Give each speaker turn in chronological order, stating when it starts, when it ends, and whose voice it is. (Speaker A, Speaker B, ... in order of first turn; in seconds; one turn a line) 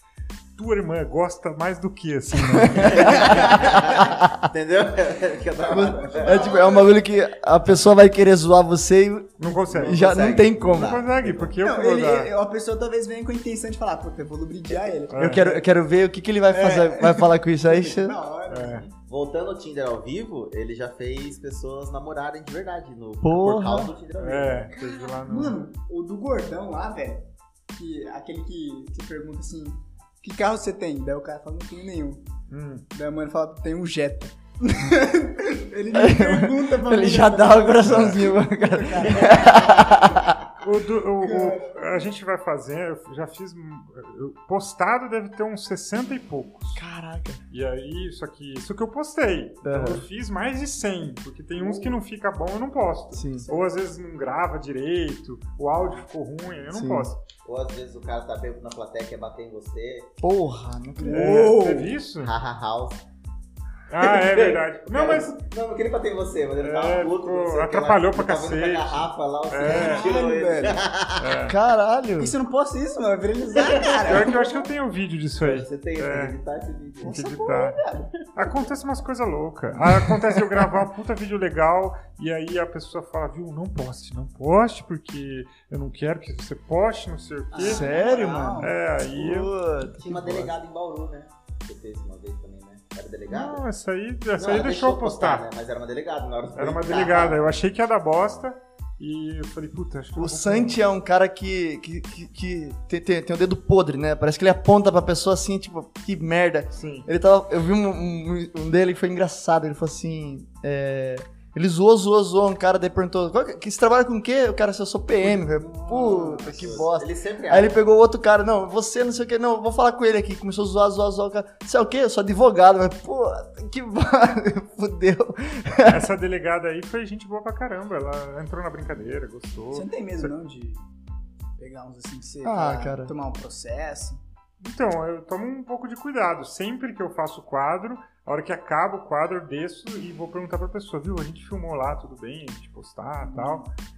Speaker A: 0.6-3.7
Speaker B: 2.5-4.3
Speaker C: 2.8-6.5
Speaker B: 5.7-11.0
Speaker D: 6.0-7.0
Speaker A: 9.4-12.3
Speaker C: 9.7-11.6
Speaker D: 11.6-15.6
Speaker A: 15.1-15.5
Speaker B: 15.2-18.2
Speaker D: 16.5-18.9
Speaker A: 18.5-18.9
Speaker C: 18.9-24.8
Speaker B: 23.2-23.9
Speaker A: 24.2-25.6
Speaker D: 25.2-32.2
Speaker A: 32.5-32.9
Speaker D: 32.9-39.6
Speaker B: 35.9-40.4
Speaker A: 37.8-38.2
Speaker C: 39.1-40.3
Speaker A: 40.6-46.8
Speaker D: 41.2-42.0
Speaker B: 46.8-47.4
Speaker A: 47.5-57.2
Speaker B: 49.6-50.1
Speaker C: 51.6-52.0
Speaker B: 53.1-53.5
Speaker B: 56.7-57.1
Speaker C: 57.5-60.1
Speaker B: 60.2-61.5
Speaker D: 61.0-61.9
Speaker A: 61.1-62.3
Speaker C: 62.2-63.0
Speaker A: 63.9-65.4
Speaker C: 64.0-71.3
Speaker A: 66.6-70.1
Speaker D: 69.6-70.8
Speaker A: 71.2-71.6
Speaker B: 71.4-72.3
Speaker D: 72.2-74.7
Speaker C: 73.5-74.3
Speaker A: 74.0-76.4
Speaker C: 75.4-77.3
Speaker A: 77.0-77.8
Speaker D: 77.0-78.0
Speaker C: 78.0-78.5
Speaker A: 78.3-87.9
Speaker C: 87.5-87.8
Speaker D: 87.5-88.8
Speaker B: 87.6-90.5
Speaker A: 88.6-89.5
Speaker C: 90.0-93.6
Speaker A: 93.3-95.5
Speaker C: 94.4-97.4
Speaker A: 96.5-100.8
Speaker B: 100.2-126.1
Speaker A: 106.7-107.1
Speaker D: 115.2-116.9
Speaker C: 116.6-117.8
Speaker A: 125.9-130.3
Speaker D: 129.7-130.8
Speaker D: 131.6-134.2
Speaker B: 132.4-133.1
Speaker A: 134.6-143.7
Speaker D: 143.2-143.7